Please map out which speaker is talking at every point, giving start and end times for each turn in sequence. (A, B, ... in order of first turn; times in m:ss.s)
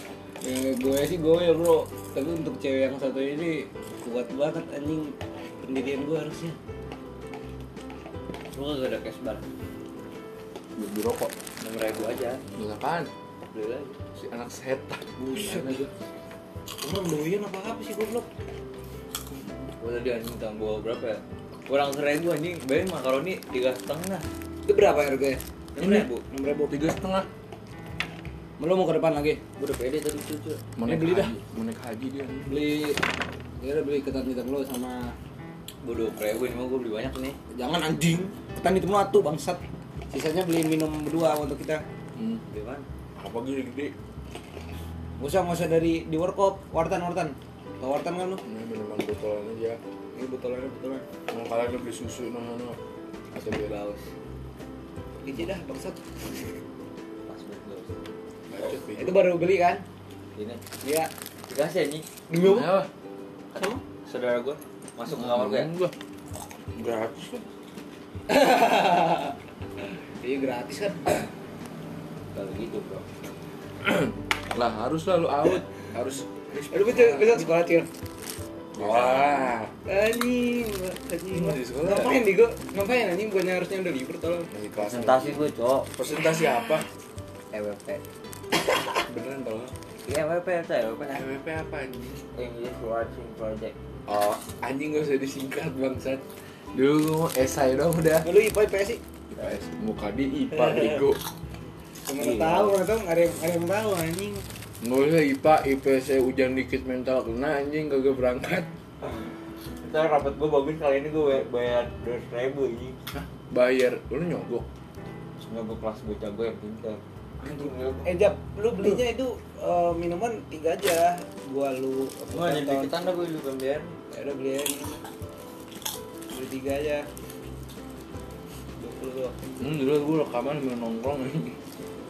0:00.4-0:06.6 A
0:08.5-0:09.4 B
0:10.8-0:11.3 C
0:11.6-0:12.4 B
0:12.5-0:13.1 C
0:13.5-0:14.0 B
0:14.1-0:15.9 C
0:15.2-0:15.9 A
0:16.8-0:18.3 A
0:19.8-0:24.2 B
0:24.6-0:26.8 A
0:25.8-0:26.1 B
0:25.8-0:26.0 C
0:26.7-0:27.3 C
0:28.6-0:29.4 A
0:29.6-0:30.6 B
0:30.8-0:32.6 C
0:30.8-0:31.3 A
0:32.5-0:33.0 A
0:33.6-0:35.1 A
0:35.8-0:37.4 B
0:37.5-0:41.8 A
0:42.2-0:42.4 C
0:42.5-0:42.9 B
0:43.2-0:43.9 C
0:45.2-0:48.4 A
0:48.4-0:49.8 C
0:50.2-0:51.0 A
0:51.3-0:52.8 C
0:53.3-0:54.0 C
0:55.2-0:56.2 A
0:57.3-0:58.1 B
0:58.5-0:59.2 C
0:58.9-0:59.8 A
1:00.4-1:00.6 B
1:00.8-1:01.1 A
1:01.5-1:02.1 B
1:02.3-1:02.8 A
1:02.4-1:02.9 C
1:03.6-1:03.8 A
1:04.0-1:05.7 B
1:05.1-1:05.9 C
1:06.8-1:07.4 C
1:08.3-1:09.4 A
1:10.2-1:11.3 A
1:12.3-1:13.0 B
1:13.8-1:17.5 C
1:16.7-1:17.9 A
1:18.7-1:19.7 C
1:18.8-1:19.4 B
1:19.8-1:24.5 A
1:21.3-1:22.2 C
1:24.5-1:25.4 C
1:24.8-1:25.9 B
1:25.9-1:26.9 C
1:27.5-1:28.0 B
1:29.0-1:29.7 C
1:30.0-1:31.3 B
1:31.1-1:32.2 C
1:32.3-1:33.7 B
1:34.1-1:38.3 C
1:38.2-1:39.0 A
1:39.3-1:41.2 C
1:42.0-1:44.4 A
1:42.2-1:42.8 B
1:44.8-1:48.7 C
1:49.8-1:53.0 B
1:53.1-1:54.6 C
1:55.4-1:58.2 B
1:58.0-2:02.9 A
2:02.3-2:04.0 B
2:04.1-2:05.0 A
2:06.3-2:07.1 A
2:08.8-2:09.4 A
2:09.6-2:11.6 C